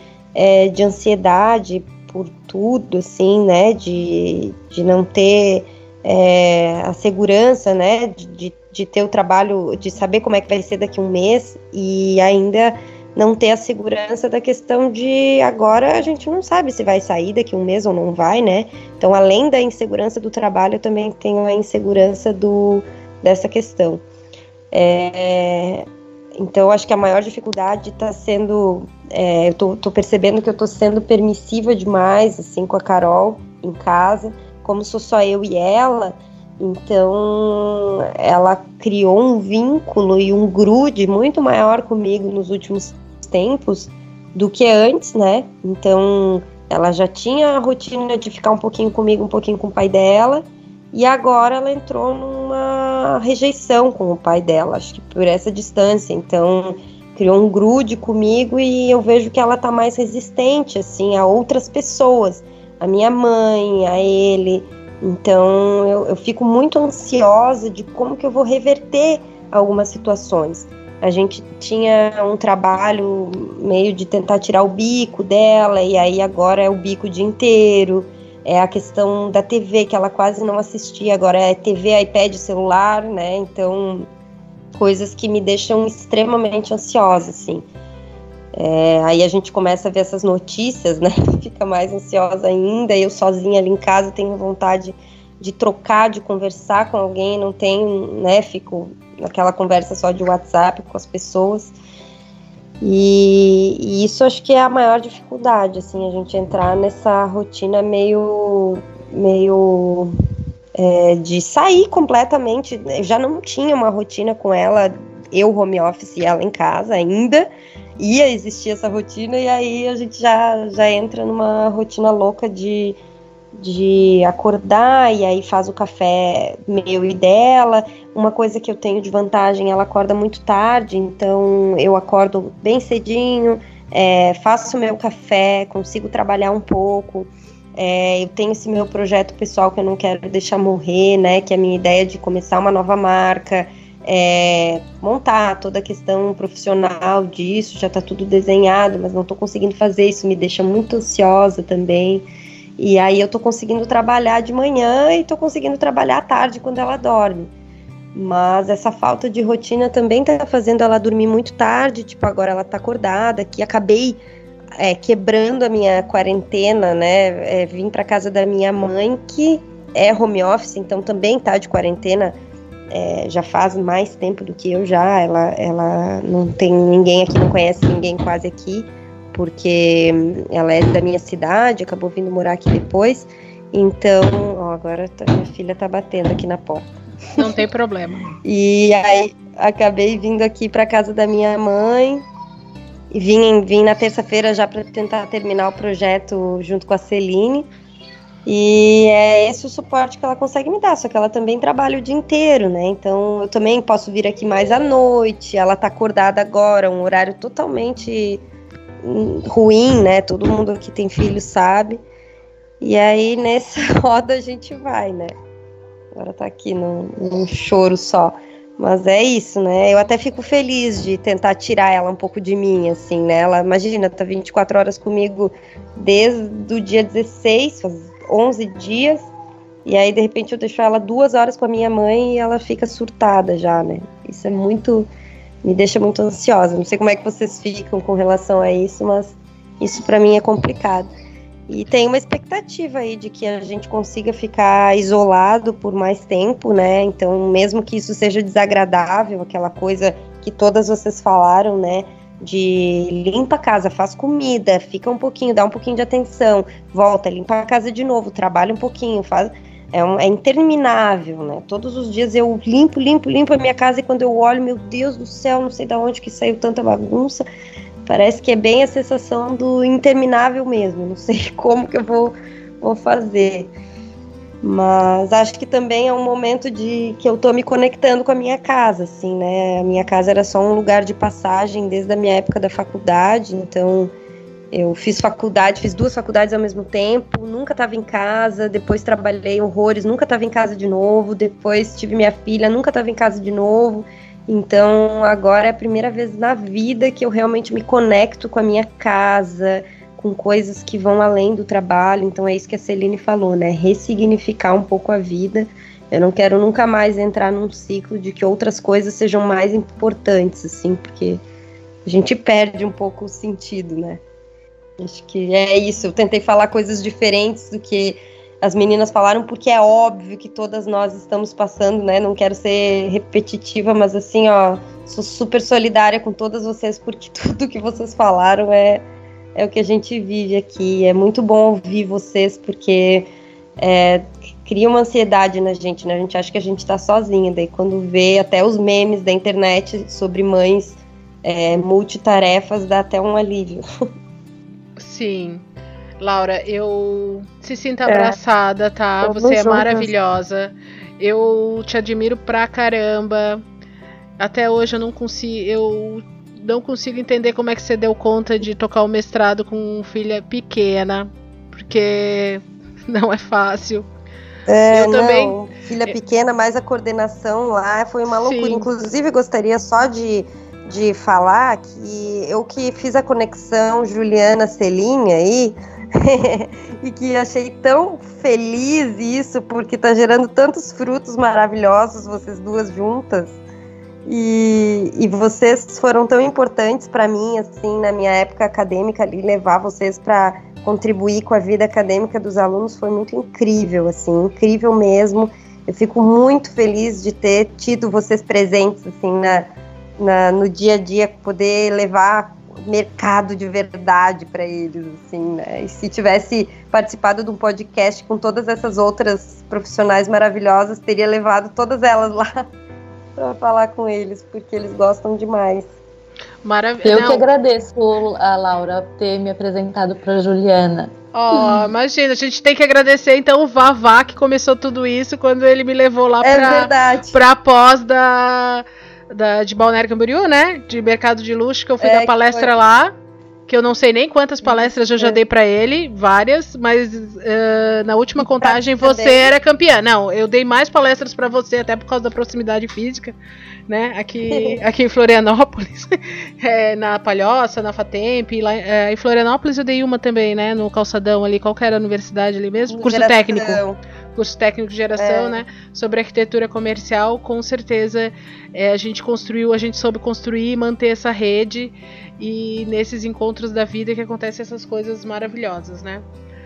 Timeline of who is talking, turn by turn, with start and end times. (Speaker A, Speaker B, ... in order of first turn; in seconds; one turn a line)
Speaker A: 0.3-24.0
Speaker A: 24.7-25.9
Speaker A: 26.4-84.1
Speaker A: 84.7-87.7
Speaker A: 88.5-101.7
Speaker A: 102.8-110.1
Speaker A: 110.8-117.5
Speaker A: 118.0-123.0
Speaker A: 123.5-152.2
Speaker A: 152.8-157.5
Speaker A: 158.1-164.2
Speaker A: 164.8-172.3
Speaker A: 172.9-187.4
Speaker B: 187.3-188.3
Speaker A: 188.4-192.2
Speaker A: 193.1-197.7
Speaker A: 198.4-208.4
Speaker A: 209.0-212.0
Speaker A: 212.8-215.3
Speaker A: 216.1-229.3
Speaker A: 229.8-235.1
Speaker A: 235.6-241.1
Speaker A: 241.7-267.4
Speaker A: 268.1-273.7
Speaker A: 274.6-284.1
Speaker A: 284.7-311.4
Speaker A: 312.1-314.2
Speaker A: 315.0-343.8
Speaker B: 345.0-345.6
Speaker B: 346.2-353.6
Speaker C: 349.2-350.0
Speaker B: 354.4-364.1
Speaker A: 364.7-383.6
Speaker B: 364.9-366.1
Speaker B: 368.3-368.9
Speaker A: 384.2-412.6
Speaker A: 413.4-415.9
Speaker B: 416.6-417.4
Speaker C: 417.0-421.1
Speaker B: 421.3-433.1
Speaker A: 426.4-427.4
Speaker A: 432.0-432.7
Speaker B: 433.7-443.4
Speaker A: 434.6-435.4
Speaker A: 438.4-439.5
Speaker B: 443.9-453.8
Speaker A: 444.5-444.8
Speaker A: 452.9-454.0
Speaker B: 454.3-466.2
Speaker A: 455.1-455.6